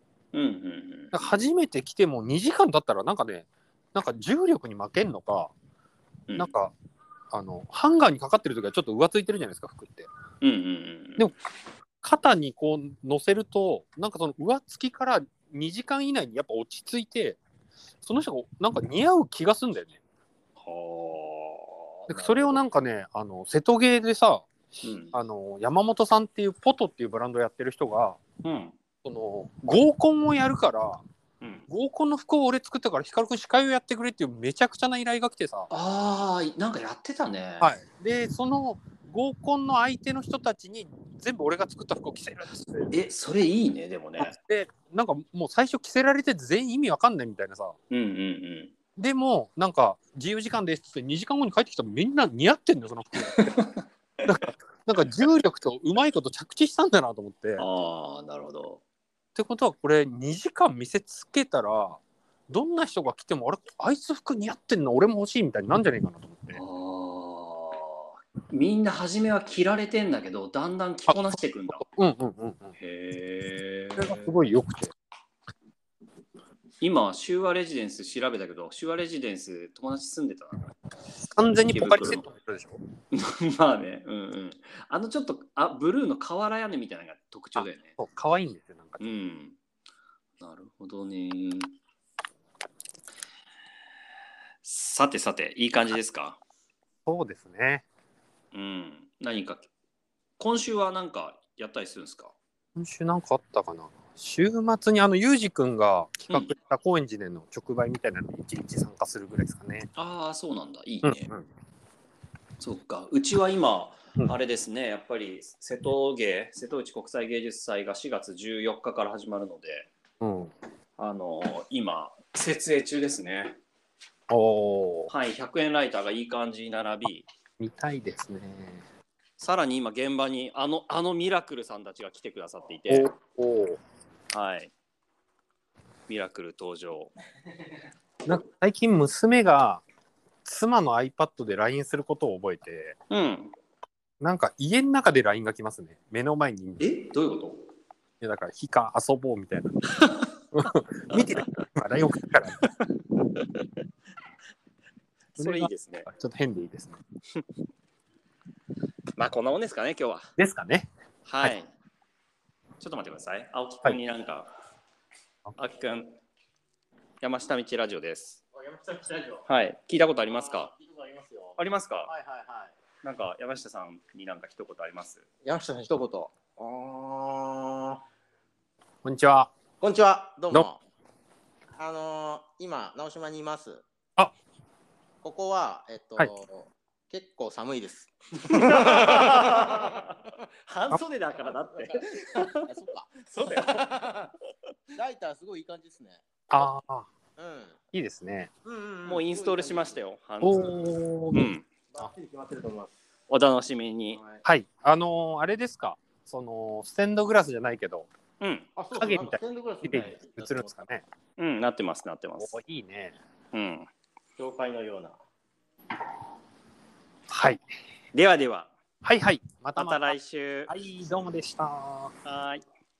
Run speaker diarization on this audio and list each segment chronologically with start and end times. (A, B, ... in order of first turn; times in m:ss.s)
0:00.3-0:01.3 A
0:01.1-0:05.5 B
0:06.4-0:06.7 B
0:07.3-0:10.1 B
0:10.4-0:11.3 A
0:12.0-0:17.4 B
0:18.0-0:20.0 B
0:20.6-0:22.6 A
0:22.1-0:24.5 B
0:24.8-0:25.2 A
0:25.1-0:28.2 B
0:28.4-0:28.8 A
0:29.0-0:31.0 B
0:31.4-0:31.7 A
0:31.7-0:35.7 B
0:35.7-0:37.7 A
0:37.6-0:42.9 B
0:42.9-0:44.4 A
0:44.2-0:47.8 B
0:47.9-0:48.7 A
0:49.0-0:53.6 B
0:53.4-0:54.4 A
0:54.3-0:57.6 B
0:57.6-0:58.8 A
0:59.4-1:06.6 B
1:06.5-1:11.9 A
1:11.8-1:12.7 B
1:12.8-1:14.3 A
1:14.0-1:14.9 B
1:16.8-1:20.7 A
1:21.3-1:22.8 B
1:21.7-1:22.3 A
1:23.1-1:28.0 A
1:27.6-1:29.1 B
1:29.0-1:29.6 A
1:30.4-1:31.8 A
1:34.6-1:36.4 A
1:37.1-1:37.8 B
1:38.5-1:39.7 A
1:40.4-1:42.4 A
1:42.8-1:49.9 B
1:50.0-1:51.3 A
1:51.0-1:51.5 B
1:52.6-1:59.9 A
2:00.2-2:00.5 B
2:01.0-2:03.6 A
2:04.3-2:05.1 B
2:05.1-2:07.3 A
2:07.6-2:08.8 B
2:09.4-2:13.1 A
2:12.9-2:13.8 B
2:14.3-2:14.7 A
2:16.1-2:17.1 A
2:18.2-2:19.8 B
2:20.4-2:23.0 B
2:23.1-2:23.5 A
2:24.2-2:26.8 B
2:26.8-2:27.6 A
2:28.2-2:29.9 B
2:30.0-2:30.3 A
2:30.5-2:32.7 B
2:33.4-2:33.7 A
2:35.4-2:36.1 A
2:35.4-2:37.0 B
2:39.2-2:40.3 A
2:40.4-2:40.9 B
2:41.3-2:41.7 A
2:42.8-2:44.5 A
2:45.6-2:46.2 A
2:47.2-2:48.4 A
2:48.5-2:49.5 C
2:49.5-2:50.7 A
2:50.3-2:52.7 C
2:51.6-2:52.1 A
2:53.0-2:55.2 A
2:55.4-2:58.0 C
2:59.0-2:59.5 B
2:59.8-3:00.8 C
3:01.8-3:03.8 C
3:05.2-3:10.0 C
3:08.4-3:10.2 A
3:10.7-3:12.7 A
3:11.4-3:14.3 C
3:13.3-3:14.1 A
3:15.0-3:16.3 C
3:16.5-3:17.1 B
3:17.4-3:17.8 C
3:17.9-3:18.5 B
3:18.7-3:20.0 C
3:19.0-3:20.8 A
3:20.4-3:22.1 B
3:21.3-3:21.7 A
3:21.9-3:22.9 C
3:23.3-3:24.2 A
3:24.2-3:24.4 C
3:24.4-3:28.1 B
3:28.4-3:28.7 A
3:28.8-3:30.8 C
3:29.0-3:31.0 B
3:31.4-3:32.6 A
3:32.4-3:33.2 B
3:33.5-3:33.9 A
3:34.4-3:35.2 C
3:37.3-3:37.6 B
3:38.1-3:38.7 A
3:39.0-3:40.2 B
3:39.8-3:40.7 A
3:40.7-3:42.2 B
3:42.2-3:42.6 A